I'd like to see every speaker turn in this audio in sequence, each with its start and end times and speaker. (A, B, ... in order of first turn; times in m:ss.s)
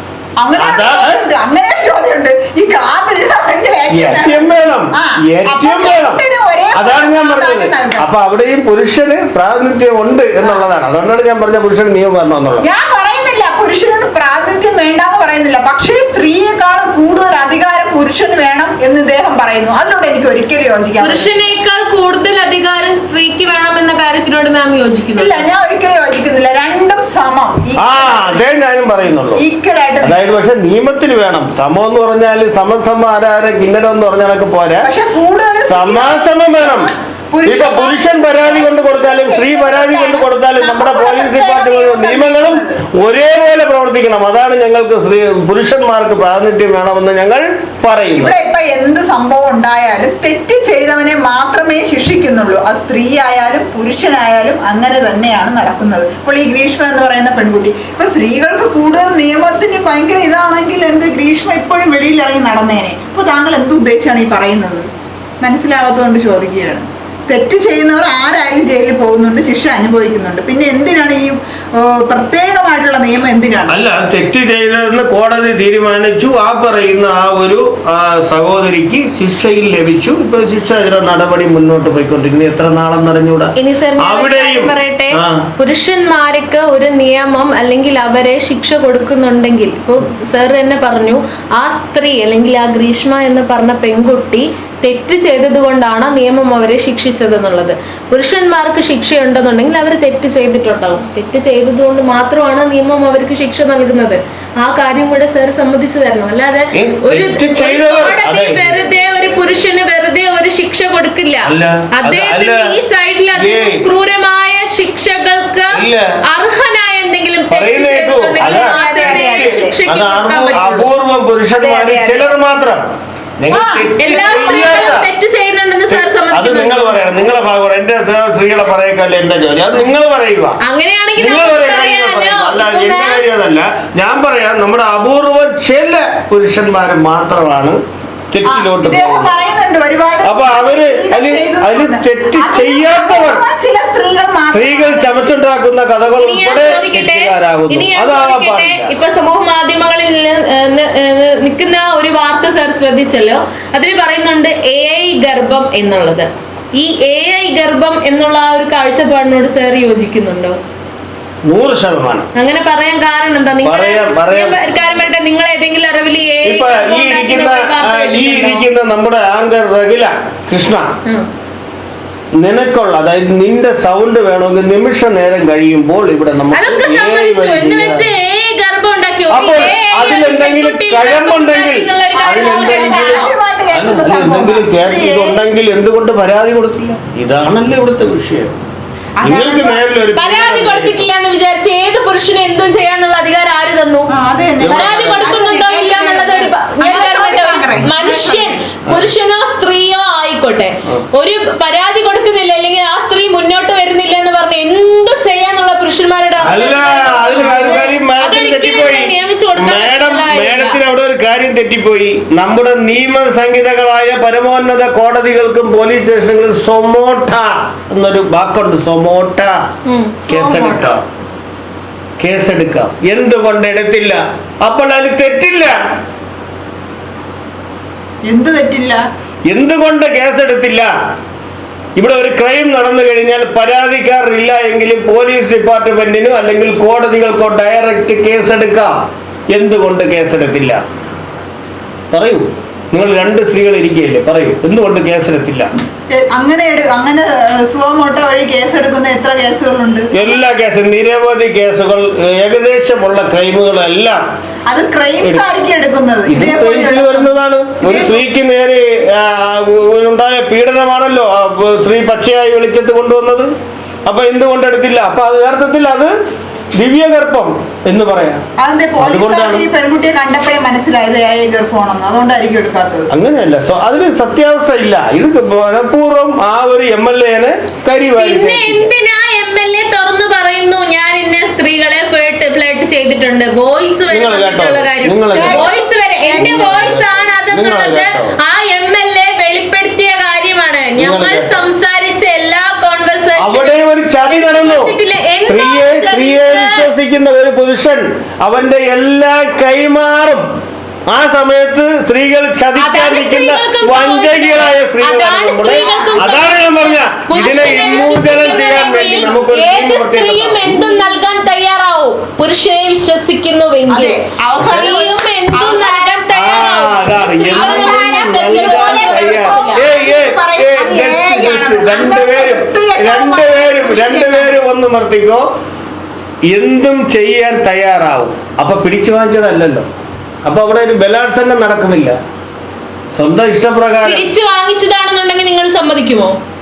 0:00.4-0:08.1 A
0:00.6-0:01.2 B
0:03.9-0:06.2 B
0:06.7-0:12.6 B
0:12.6-0:21.5 A
0:21.0-0:25.4 C
0:25.2-0:28.5 A
0:27.8-0:29.4 B
0:29.4-0:30.2 A
0:30.0-0:34.9 B
0:34.8-0:42.8 A
0:35.7-0:36.9 B
0:37.4-0:48.4 B
0:48.1-1:04.9 A
1:05.4-1:13.8 A
1:13.7-1:25.5 B
1:23.6-2:00.9 C
1:46.7-1:49.5 B
1:51.4-1:52.7 B
1:53.3-1:53.8 B
1:55.7-1:56.0 B
1:57.5-2:05.1 B
1:58.4-1:59.8 A
2:01.6-2:02.4 A
2:03.5-2:04.8 A
2:04.0-2:07.0 C
2:05.9-2:10.6 B
2:10.6-2:13.2 C
2:11.2-2:19.3 B
2:18.4-2:25.4 A
2:20.2-2:23.4 B
2:24.5-2:28.9 B
2:26.2-2:40.6 C
2:41.4-2:42.3 B
2:42.3-2:48.7 C
2:43.6-2:44.9 B
2:46.4-2:50.9 B
2:52.4-2:58.1 B
2:56.5-3:03.3 C
2:59.3-3:08.6 B
3:02.2-3:05.4 A
3:09.2-3:09.8 A
3:09.2-3:11.1 B
3:10.1-3:14.1 C
3:14.1-3:18.6 A
3:14.6-3:15.4 B
3:14.7-3:30.8 C
3:26.4-3:39.6 B
3:27.1-3:28.0 A
3:39.8-3:40.2 C
3:40.2-3:41.0 A
3:40.3-3:41.0 B
3:42.2-3:45.8 B
3:48.2-3:49.0 A
3:49.5-3:50.9 B
3:52.0-4:00.8 B
4:02.1-4:05.7 B
4:06.1-4:10.4 A
4:10.1-4:14.2 B
4:14.7-4:18.2 A
4:16.3-4:23.5 B
4:24.0-4:26.1 B
4:26.8-4:28.4 B
4:28.6-4:33.1 A
4:29.0-4:29.6 B
4:33.1-4:38.9 B
4:38.2-4:56.9 C
4:44.1-4:45.7 B
4:45.3-4:47.0 A
4:46.4-4:48.4 B
4:51.0-4:51.6 B
4:53.4-5:00.5 B
5:01.1-5:10.8 B
5:02.8-5:19.8 C
5:05.7-5:06.1 A
5:13.9-5:16.2 A
5:16.3-5:25.4 B
5:17.5-5:24.5 A
5:26.5-5:29.9 B
5:30.4-5:32.2 B
5:33.2-5:34.3 B
5:34.0-5:36.4 C